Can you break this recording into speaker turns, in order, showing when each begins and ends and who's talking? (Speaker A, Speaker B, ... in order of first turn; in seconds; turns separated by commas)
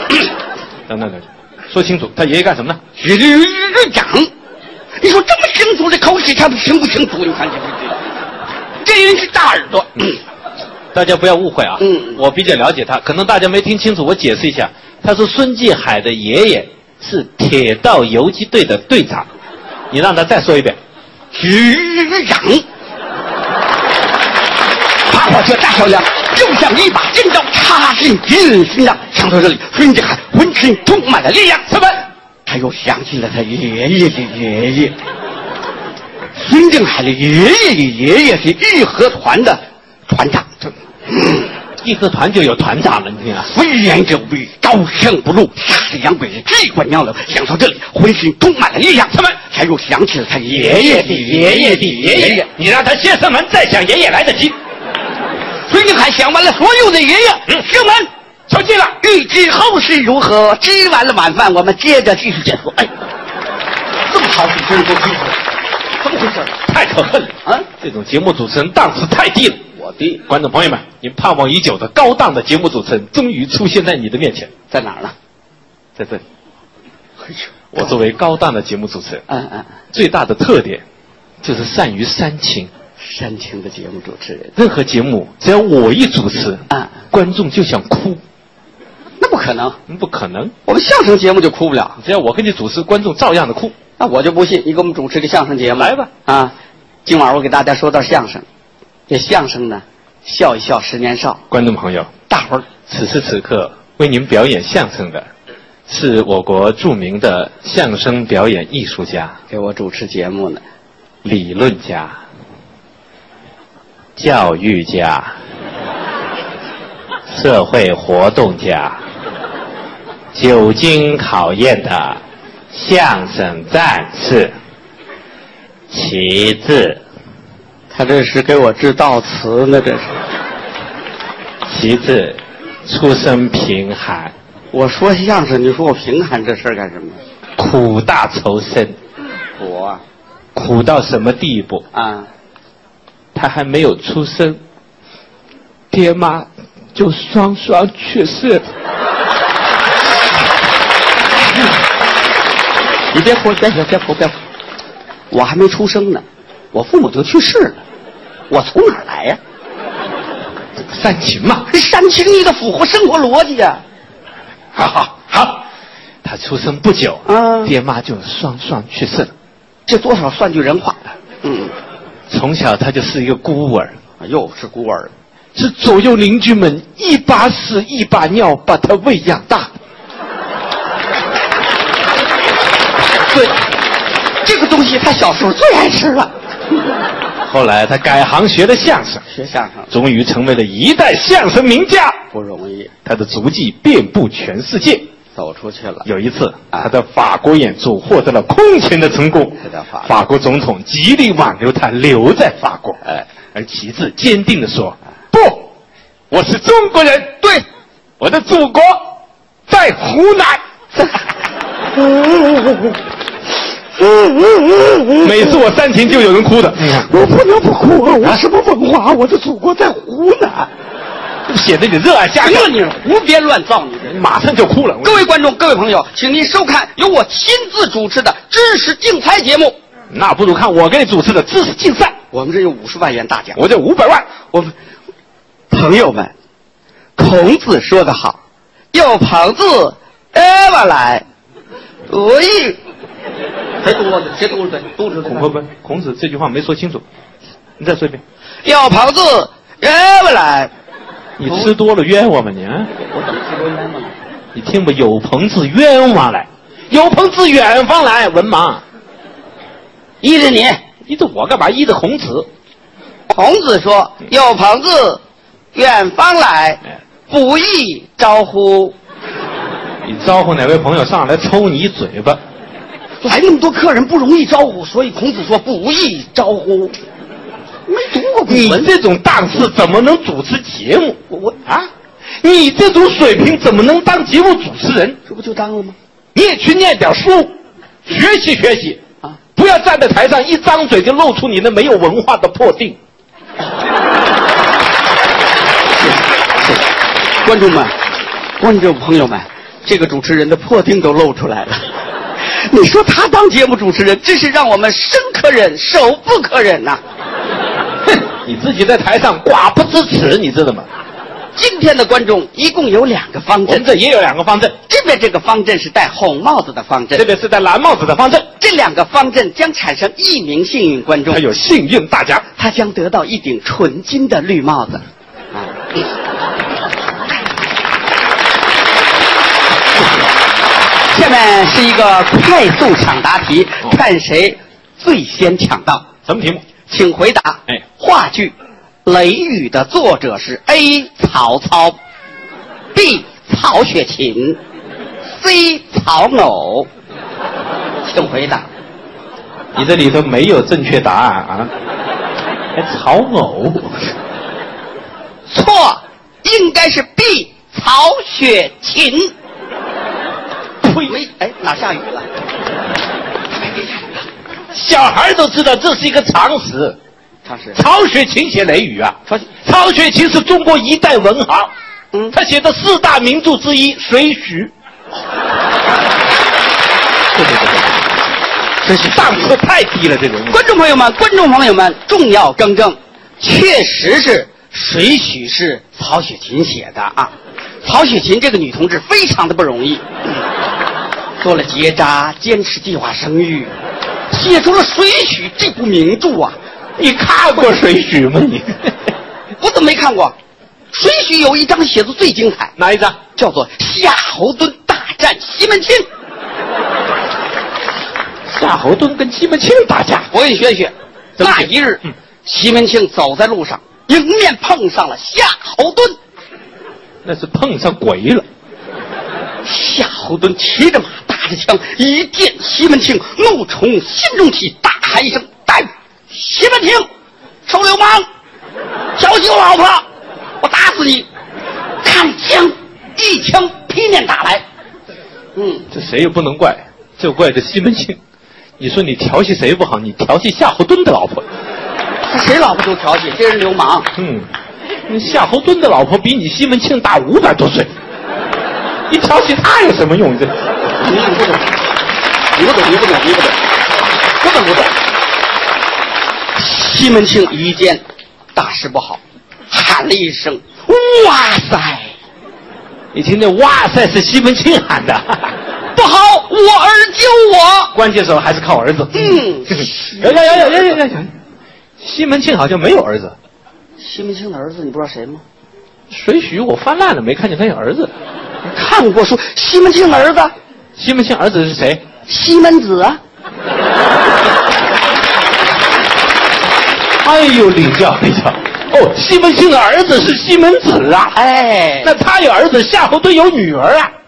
Speaker A: 0.9-2.8, Speaker B: 3.0-4.3, Speaker B: 5.0-8.0, Speaker B: 8.8-10.2, Speaker A: 10.9-19.3, Speaker B: 11.8-12.2, Speaker A: 19.9-20.8, Speaker B: 21.3-22.6, Speaker B: 25.1-31.7, Speaker A: 31.7-32.0, Speaker B: 32.5-35.0, Speaker B: 36.4-41.4, Speaker A: 41.8-43.5, Speaker B: 43.5-52.5, Speaker A: 50.5-54.5, Speaker B: 55.7-58.1, Speaker A: 58.5-59.0, Speaker B: 59.0-62.9, Speaker B: 64.1-65.4, Speaker B: 66.0-66.5, Speaker A: 66.6-74.5, Speaker B: 69.8-70.2, Speaker B: 74.7-75.1, Speaker A: 76.0-76.2, Speaker B: 77.2-77.5, Speaker A: 77.7-79.2, Speaker B: 79.3-79.7, Speaker A: 79.9-80.8, Speaker A: 81.4-82.7, Speaker B: 83.0-84.5, Speaker A: 84.6-88.2, Speaker B: 86.7-87.0, Speaker B: 89.2-89.8, Speaker A: 89.9-90.5, Speaker B: 90.7-92.0, Speaker A: 92.0-93.7, Speaker B: 94.0-96.5, Speaker A: 95.6-96.1, Speaker B: 97.0-98.5, Speaker B: 99.1-101.4, Speaker A: 101.5-102.1, Speaker B: 102.3-102.7, Speaker A: 102.9-105.3, Speaker A: 105.9-109.4, Speaker B: 109.5-110.6, Speaker A: 111.2-112.2, Speaker A: 114.2-115.4, Speaker A: 117.3-119.0, Speaker A: 120.3-122.2, Speaker A: 122.7-124.5, Speaker A: 125.9-127.0, Speaker B: 127.9-130.2, Speaker A: 131.7-134.3, Speaker B: 134.7-137.2, Speaker A: 137.6-138.9, Speaker B: 139.6-140.0, Speaker A: 140.6-141.8, Speaker B: 141.9-142.3, Speaker A: 143.3-144.6, Speaker A: 145.9-148.7, Speaker B: 153.1-154.3, Speaker B: 155.3-157.8, Speaker B: 158.5-159.4, Speaker A: 160.8-161.7, Speaker B: 161.7-163.8, Speaker A: 164.8-165.6, Speaker A: 166.2-169.3, Speaker B: 167.3-167.7, Speaker B: 169.9-171.7, Speaker A: 172.3-174.0, Speaker B: 174.2-175.1, Speaker A: 175.6-179.7, Speaker B: 184.4-186.3, Speaker A: 187.4-189.2, Speaker B: 189.3-189.9, Speaker A: 189.9-192.2, Speaker B: 192.3-192.9, Speaker A: 193.1-195.1, Speaker B: 195.3-196.1, Speaker A: 196.1-203.0, Speaker B: 199.6-200.1, Speaker A: 203.5-205.7, Speaker A: 206.3-207.4, Speaker A: 208.2-209.1, Speaker A: 209.7-210.6, Speaker B: 214.1-215.2, Speaker A: 215.2-217.1, Speaker B: 217.1-220.7, Speaker A: 221.5-222.7, Speaker B: 222.4-224.2, Speaker A: 224.1-225.3, Speaker B: 225.0-229.8, Speaker A: 230.1-232.1, Speaker B: 232.3-233.6, Speaker A: 233.6-234.3, Speaker B: 235.7-236.3, Speaker B: 237.2-238.4, Speaker B: 238.9-241.2, Speaker B: 242.1-242.8, Speaker B: 243.8-245.5, Speaker A: 245.2-247.0, Speaker A: 247.8-248.2, Speaker B: 248.6-250.7, Speaker A: 251.4-252.9, Speaker B: 253.1-254.2, Speaker A: 254.6-258.8, Speaker B: 260.2-260.8, Speaker A: 261.1-262.5, Speaker B: 263.3-265.2, Speaker B: 265.7-268.9, Speaker A: 270.0-272.4, Speaker B: 273.2-276.9, Speaker B: 277.9-278.9, Speaker A: 278.5-281.9, Speaker B: 281.3-281.6, Speaker A: 282.4-285.2, Speaker B: 285.3-286.0, Speaker A: 286.4-287.5, Speaker A: 288.1-289.0, Speaker A: 289.6-293.0, Speaker B: 295.9-296.9, Speaker B: 297.4-297.9, Speaker B: 298.6-301.9, Speaker B: 302.4-307.0, Speaker A: 308.1-310.9, Speaker B: 311.6-313.9, Speaker A: 313.7-314.7, Speaker B: 314.9-317.2, Speaker A: 317.1-318.4, Speaker B: 318.6-321.4, Speaker A: 321.3-322.5, Speaker B: 322.6-326.1, Speaker B: 331.1-336.1, Speaker A: 336.3-336.6, Speaker B: 336.9-338.5, Speaker B: 339.1-341.9, Speaker B: 342.9-344.6, Speaker B: 345.4-346.9, Speaker B: 348.0-348.7, Speaker A: 349.8-351.7, Speaker A: 352.8-354.1, Speaker B: 355.5-359.3, Speaker A: 360.8-361.1, Speaker B: 360.9-362.3, Speaker B: 363.6-364.2, Speaker A: 364.7-367.0, Speaker B: 367.4-367.8, Speaker A: 367.8-371.7, Speaker A: 372.3-374.7, Speaker A: 377.3-378.1, Speaker B: 378.9-379.3, Speaker A: 378.9-380.6, Speaker B: 380.5-387.3, Speaker B: 387.8-390.0, Speaker B: 391.4-393.7, Speaker B: 394.3-396.6, Speaker A: 397.0-398.9, Speaker B: 399.6-400.3, Speaker B: 400.9-402.7, Speaker A: 402.8-403.2, Speaker B: 403.4-406.1, Speaker A: 408.5-410.3, Speaker B: 410.3-416.2, Speaker A: 411.4-411.7, Speaker A: 417.2-418.4, Speaker B: 419.6-427.1, Speaker B: 427.7-428.3, Speaker B: 429.2-430.1, Speaker B: 430.6-431.3, Speaker B: 432.0-434.6, Speaker B: 435.6-435.9, Speaker A: 435.9-438.2, Speaker A: 438.8-441.5, Speaker B: 442.2-444.1, Speaker A: 444.2-444.5, Speaker A: 445.1-447.9, Speaker A: 449.1-450.6, Speaker B: 451.0-451.9, Speaker B: 452.6-453.6, Speaker B: 454.4-454.9, Speaker B: 456.6-458.0, Speaker B: 458.6-462.1, Speaker A: 463.1-465.5, Speaker B: 465.9-467.9, Speaker A: 467.9-471.3, Speaker B: 469.1-471.0, Speaker A: 472.0-473.4, Speaker B: 474.0-475.4, Speaker A: 476.1-478.1, Speaker B: 478.6-480.5, Speaker A: 481.0-482.0, Speaker B: 482.3-483.2, Speaker A: 487.2-491.4, Speaker B: 491.3-492.1, Speaker A: 492.0-494.1